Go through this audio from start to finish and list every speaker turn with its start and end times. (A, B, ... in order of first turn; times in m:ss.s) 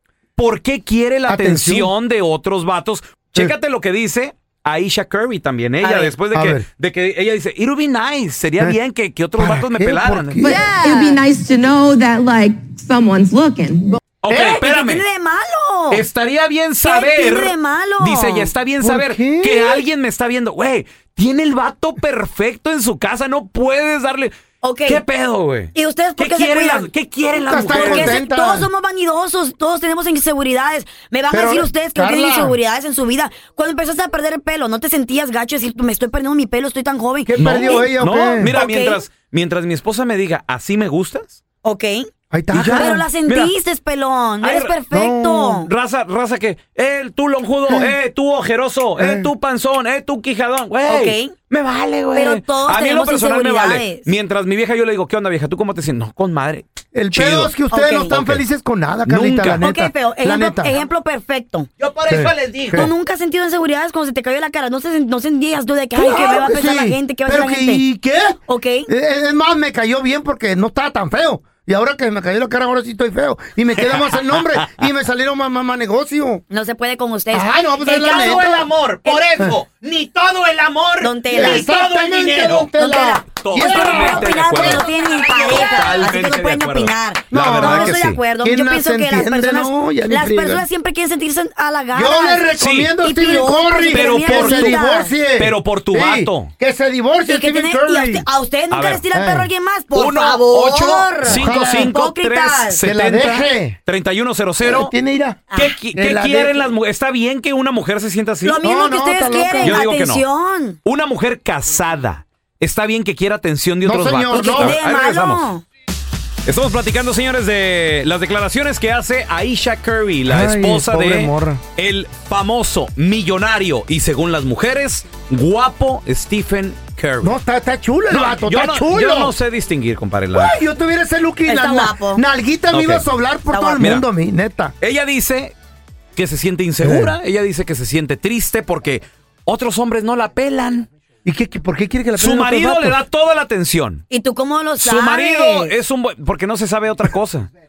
0:00.4-0:10.4 A
0:01.3-0:01.9 B
0:05.8-0:06.2 C
0:06.3-0:06.7 B
0:09.4-0:10.7 B
0:10.4-0:14.0 D
0:10.5-0:11.2 C
0:14.2-0:15.0 A
0:14.3-0:14.6 B
0:14.3-0:16.0 C
0:15.9-0:24.3 A
0:16.8-0:18.5 C
0:18.8-0:19.8 B
0:24.6-0:25.0 C
0:24.9-0:28.2 A
0:25.8-0:26.9 C
0:27.4-0:28.7 B
0:27.7-0:39.0 C
0:31.3-0:32.6 B
0:37.3-0:38.6 B
0:37.4-0:41.4 A
0:41.6-0:45.7 C
0:42.3-0:43.1 B
0:42.5-0:43.5 A
0:44.4-0:44.8 A
0:44.9-0:45.6 B
0:45.6-0:57.5 A
0:47.7-0:48.0 B
0:49.0-0:49.3 B
0:50.9-0:51.4 C
0:52.2-0:54.1 C
0:56.9-1:00.8 B
0:57.7-0:58.2 C
0:58.1-0:58.4 A
0:59.1-0:59.7 A
0:59.5-1:01.7 C
1:01.8-1:02.7 E
1:02.1-1:02.9 B
1:02.7-1:07.9 C
1:06.0-1:16.4 B
1:08.5-1:08.9 C
1:13.8-1:14.4 A
1:16.5-1:19.4 C
1:17.3-1:18.7 B
1:17.9-1:21.1 E
1:21.0-1:21.8 C
1:21.3-1:24.9 B
1:21.8-1:22.6 E
1:22.7-1:35.2 C
1:23.3-1:24.8 A
1:23.5-1:26.2 E
1:25.4-1:28.2 A
1:27.3-1:30.7 B
1:31.9-1:38.3 B
1:32.6-1:32.9 A
1:33.9-1:34.8 A
1:35.4-1:36.5 A
1:37.3-1:42.9 C
1:38.7-1:39.1 A
1:39.1-1:39.5 B
1:39.9-1:44.9 A
1:41.2-1:41.9 B
1:42.8-1:43.8 B
1:44.6-1:46.7 B
1:45.5-1:45.8 C
1:45.5-1:48.6 A
1:48.4-1:50.8 C
1:48.6-1:49.8 B
1:49.6-1:50.2 A
1:50.8-1:55.5 A
1:53.8-1:54.8 B
1:54.3-1:55.6 C
1:56.5-2:07.3 A
2:00.3-2:01.6 B
2:07.2-2:09.4 B
2:08.1-2:10.6 A
2:10.4-2:14.7 B
2:11.5-2:12.2 C
2:12.7-2:13.0 A
2:13.5-2:13.9 C
2:13.8-2:14.1 A
2:14.8-2:15.6 A
2:16.2-2:20.9 A
2:16.8-2:17.2 B
2:21.2-2:23.0 B
2:22.2-2:24.0 A
2:24.1-2:25.8 C
2:24.8-2:27.5 A